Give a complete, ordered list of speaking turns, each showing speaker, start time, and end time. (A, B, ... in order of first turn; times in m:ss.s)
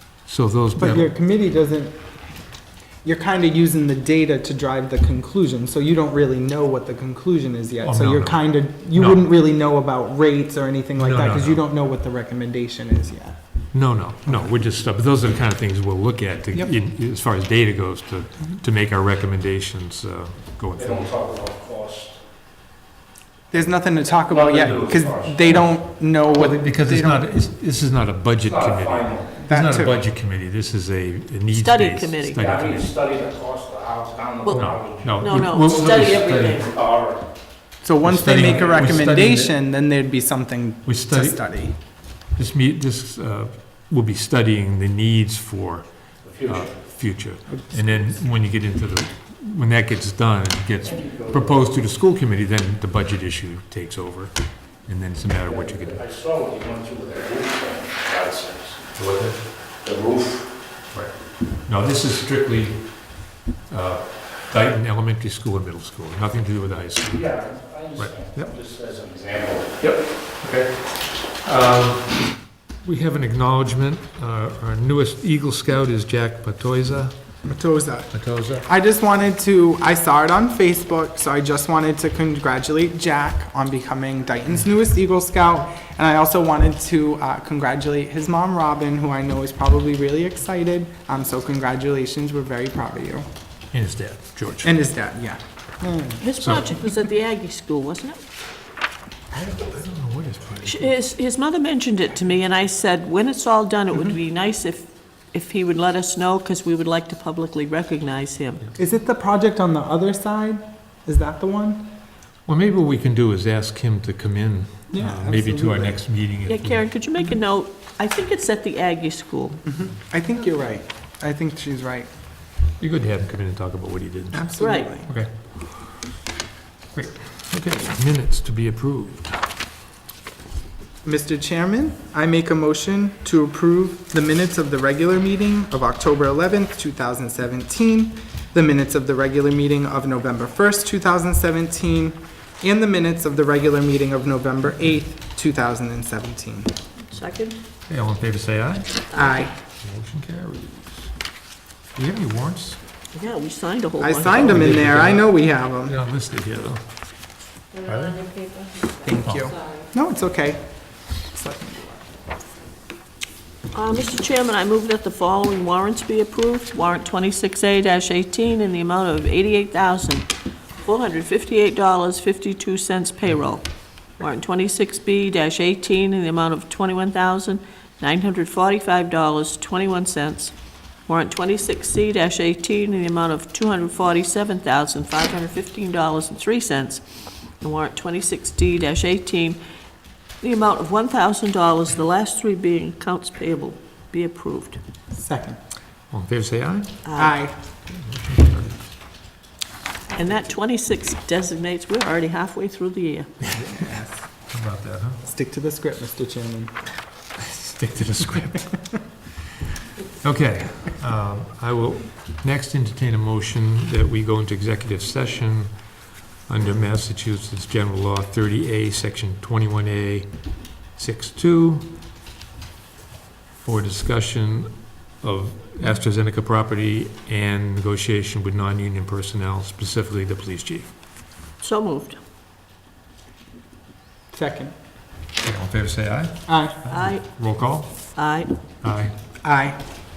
0:00.3-0:01.1 A
0:00.8-0:02.2 B
0:03.0-0:13.4 B
0:07.8-0:09.3 A
0:11.0-0:11.6 A
0:13.7-0:21.2 A
0:20.8-0:22.2 C
0:23.5-0:27.3 B
0:24.2-0:25.6 C
0:25.4-0:32.9 A
0:28.4-0:29.4 C
0:29.4-0:30.0 B
0:31.5-0:32.4 D
0:32.4-0:36.0 C
0:34.4-0:36.7 D
0:34.5-0:36.7 A
0:36.6-0:37.4 C
0:37.8-0:41.8 B
0:38.0-0:39.6 A
0:40.8-0:56.0 A
0:46.2-0:46.8 C
0:47.5-0:48.0 B
0:50.8-0:51.6 C
0:55.4-0:58.8 C
0:58.9-0:59.5 A
0:59.8-1:00.6 C
1:00.9-1:08.6 A
1:07.1-1:09.8 C
1:09.8-1:17.2 A
1:17.4-1:33.3 B
1:18.1-1:18.7 A
1:33.7-1:34.7 A
1:34.6-1:36.2 B
1:36.2-1:38.2 D
1:36.4-1:36.7 A
1:39.3-1:40.9 A
1:40.7-1:48.7 D
1:48.8-1:51.9 B
1:52.5-1:56.9 A
1:54.9-1:56.0 B
1:56.5-1:59.6 D
1:59.6-2:02.1 B
2:02.8-2:04.5 A
2:04.3-2:05.1 B
2:04.6-2:04.9 D
2:05.1-2:06.1 A
2:06.9-2:09.5 A
2:11.0-2:26.7 B
2:27.1-2:27.6 D
2:27.9-2:29.1 A
2:29.1-2:29.5 B
2:29.2-2:29.5 D
2:29.8-2:31.1 A
2:32.0-2:32.8 A
2:33.1-2:34.7 D
2:34.0-2:36.0 B
2:34.2-2:36.8 A
2:37.8-2:38.9 D
2:37.8-2:38.2 A
2:39.0-2:40.6 B
2:39.2-2:39.5 A
2:41.2-2:42.1 B
2:43.7-2:53.7 D
2:54.2-3:00.5 D
3:01.1-3:07.0 D
3:07.6-3:09.6 D
3:10.4-3:14.8 D
3:15.1-3:15.6 B
3:16.1-3:17.0 A
3:17.0-3:17.4 D
3:17.2-3:17.6 B
3:17.9-3:18.8 A
3:20.1-3:23.3 D
3:23.5-3:24.2 B
3:23.5-3:23.8 A
3:24.5-3:25.2 A
3:25.2-3:26.8 B
3:27.4-3:29.6 A
3:30.1-3:35.9 A
3:36.5-3:40.3 A
3:40.9-3:41.9 A
3:43.6-3:50.9 A
3:51.6-3:52.2 D
3:54.3-3:54.7 B
3:55.4-3:58.2 A
3:56.5-3:56.8 B
3:56.9-3:57.2 D
3:58.2-3:58.5 D
3:58.8-3:59.1 A
3:59.4-3:59.8 B